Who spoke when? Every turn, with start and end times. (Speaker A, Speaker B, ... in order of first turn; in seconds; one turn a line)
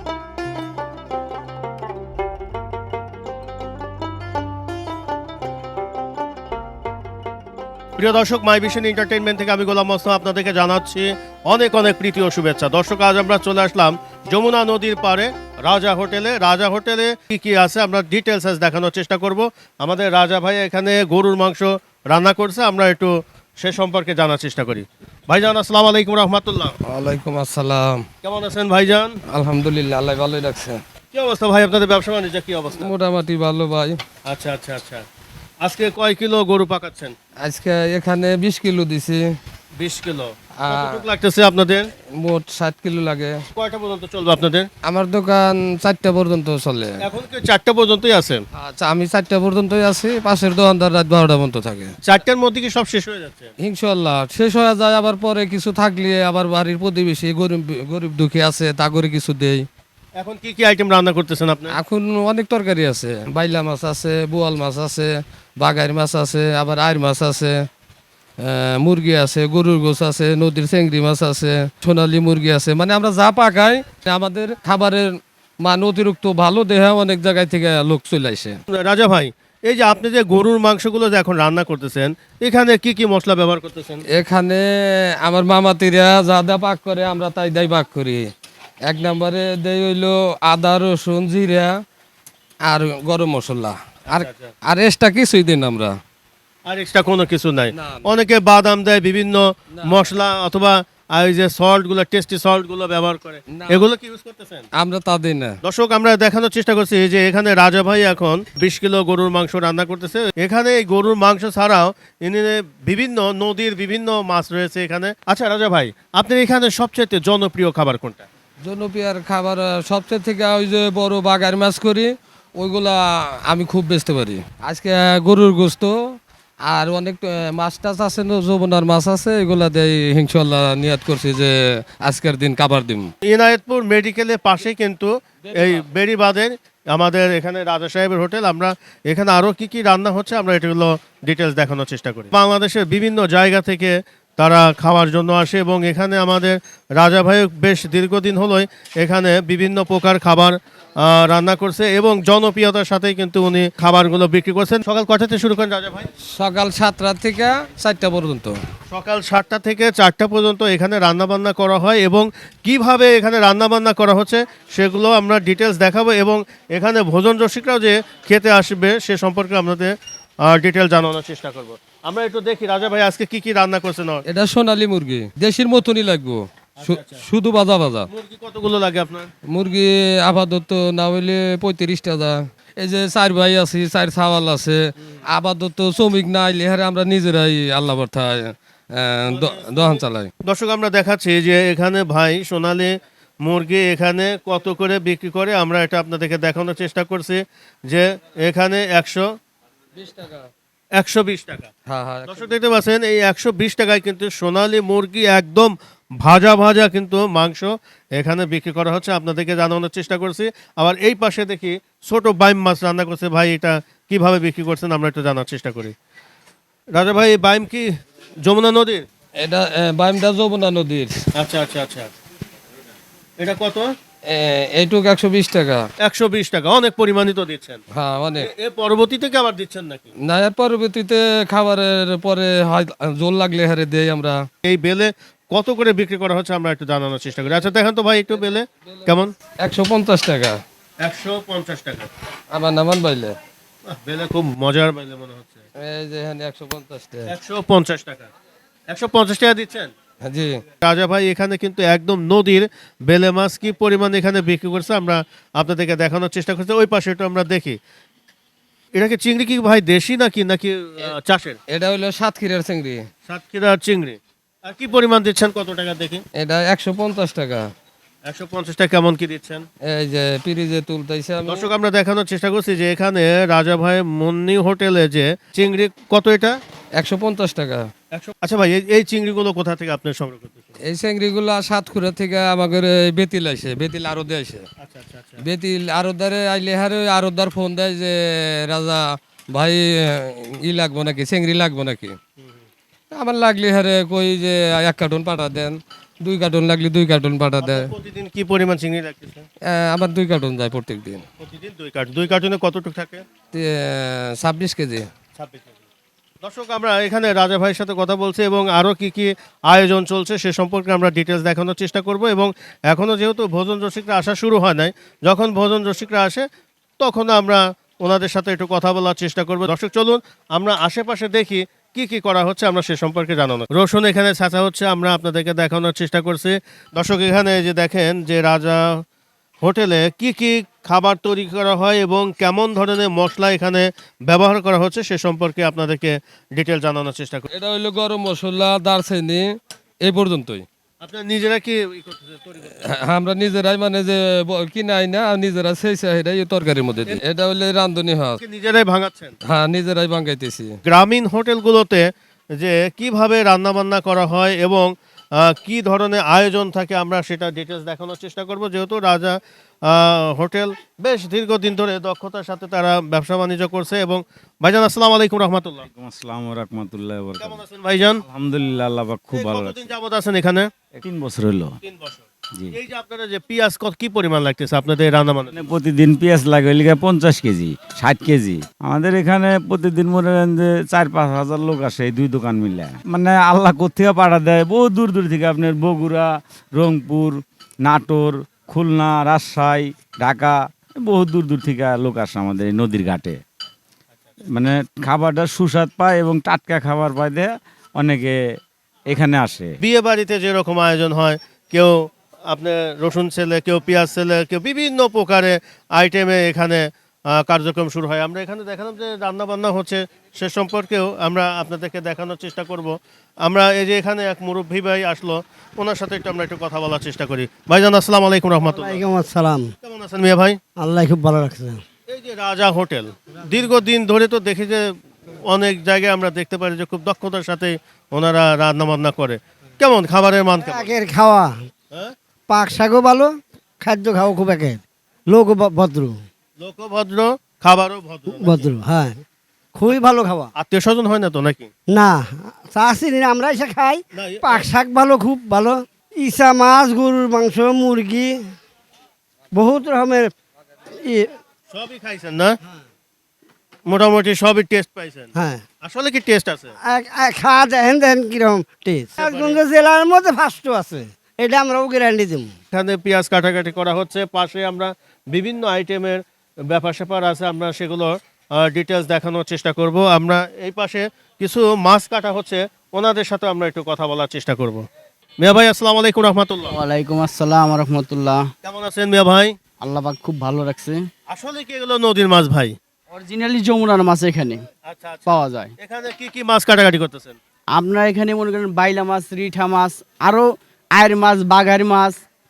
Speaker A: 8.0-26.8
Speaker B: 26.9-28.0
Speaker A: 28.2-29.2
Speaker B: 29.3-30.8
Speaker A: 31.1-32.9
Speaker B: 32.8-34.0
Speaker A: 34.2-35.0
Speaker A: 35.6-37.1
Speaker B: 37.4-39.2
Speaker A: 39.8-41.9
Speaker B: 40.6-41.0
Speaker B: 42.1-43.4
Speaker A: 43.5-44.7
Speaker B: 44.8-47.0
Speaker A: 47.0-48.4
Speaker B: 48.5-51.9
Speaker A: 52.0-53.5
Speaker B: 53.6-59.6
Speaker A: 60.2-61.8
Speaker B: 61.8-67.6
Speaker B: 68.4-78.6
Speaker A: 78.7-84.0
Speaker B: 84.1-88.3
Speaker B: 88.9-91.8
Speaker B: 92.7-96.0
Speaker A: 94.1-94.5
Speaker A: 96.7-104.7
Speaker B: 97.8-98.0
Speaker B: 99.8-100.0
Speaker B: 103.5-103.8
Speaker B: 104.8-105.5
Speaker A: 105.6-118.2
Speaker B: 118.6-126.1
Speaker B: 126.7-133.1
Speaker A: 133.2-156.1
Speaker B: 135.5-135.8
Speaker B: 156.3-158.6
Speaker A: 158.9-174.2
Speaker B: 174.3-178.1
Speaker A: 176.8-177.2
Speaker A: 178.1-179.3
Speaker B: 179.5-190.3
Speaker A: 189.3-199.3
Speaker B: 200.0-200.5
Speaker A: 200.9-201.7
Speaker B: 201.9-202.5
Speaker A: 202.3-215.9
Speaker A: 216.9-219.1
Speaker B: 219.4-221.2
Speaker A: 221.3-222.1
Speaker A: 223.4-223.9
Speaker B: 224.3-225.9
Speaker A: 226.0-227.8
Speaker B: 227.9-228.5
Speaker A: 228.4-230.1
Speaker B: 230.2-234.4
Speaker A: 234.6-239.3
Speaker B: 239.6-240.6
Speaker A: 241.0-242.1
Speaker B: 242.5-243.4
Speaker A: 243.9-245.6
Speaker B: 245.8-247.3
Speaker A: 247.3-248.3
Speaker A: 248.9-249.9
Speaker B: 250.2-250.6
Speaker A: 250.8-257.8
Speaker A: 258.9-261.6
Speaker B: 261.7-263.1
Speaker A: 263.3-266.2
Speaker B: 266.4-267.7
Speaker A: 268.2-269.6
Speaker B: 269.8-271.7
Speaker A: 271.5-276.6
Speaker B: 277.0-277.9
Speaker A: 278.1-280.7
Speaker B: 280.9-284.7
Speaker A: 284.8-285.4
Speaker B: 285.4-292.1
Speaker B: 293.1-297.9
Speaker A: 297.6-299.4
Speaker B: 299.6-301.2
Speaker A: 301.4-303.2
Speaker B: 303.5-305.1
Speaker A: 305.4-305.8
Speaker A: 306.4-316.4
Speaker A: 317.0-329.0
Speaker A: 329.6-337.5
Speaker B: 337.5-339.5
Speaker B: 340.0-340.6
Speaker A: 341.0-342.8
Speaker B: 342.8-348.4
Speaker A: 348.4-349.3
Speaker B: 349.5-350.8
Speaker A: 350.9-365.9
Speaker C: 365.9-367.6
Speaker A: 367.4-368.2
Speaker C: 368.2-369.9
Speaker A: 369.3-370.7
Speaker C: 371.0-371.7
Speaker A: 371.8-375.6
Speaker C: 375.5-393.4
Speaker C: 394.5-398.4
Speaker C: 399.1-399.8
Speaker A: 399.8-419.0
Speaker D: 418.7-419.7
Speaker A: 419.8-420.6
Speaker D: 420.8-421.8
Speaker A: 422.1-424.9
Speaker A: 425.5-430.9
Speaker D: 430.6-431.6
Speaker D: 432.5-436.2
Speaker A: 436.6-438.7
Speaker D: 438.4-439.2
Speaker D: 439.7-440.5
Speaker A: 440.6-441.7
Speaker D: 441.9-448.4
Speaker A: 444.1-444.7
Speaker D: 449.5-450.3
Speaker D: 451.0-451.3
Speaker A: 451.7-452.6
Speaker A: 453.9-455.3
Speaker D: 455.4-455.6
Speaker A: 455.8-456.7
Speaker D: 456.9-462.5
Speaker A: 459.2-459.6
Speaker A: 462.7-474.8
Speaker A: 475.4-476.7
Speaker E: 476.7-478.4
Speaker A: 478.6-479.5
Speaker E: 479.8-481.0
Speaker A: 481.3-482.7
Speaker E: 483.1-484.6
Speaker A: 484.9-487.4
Speaker E: 485.3-485.7
Speaker E: 487.7-492.2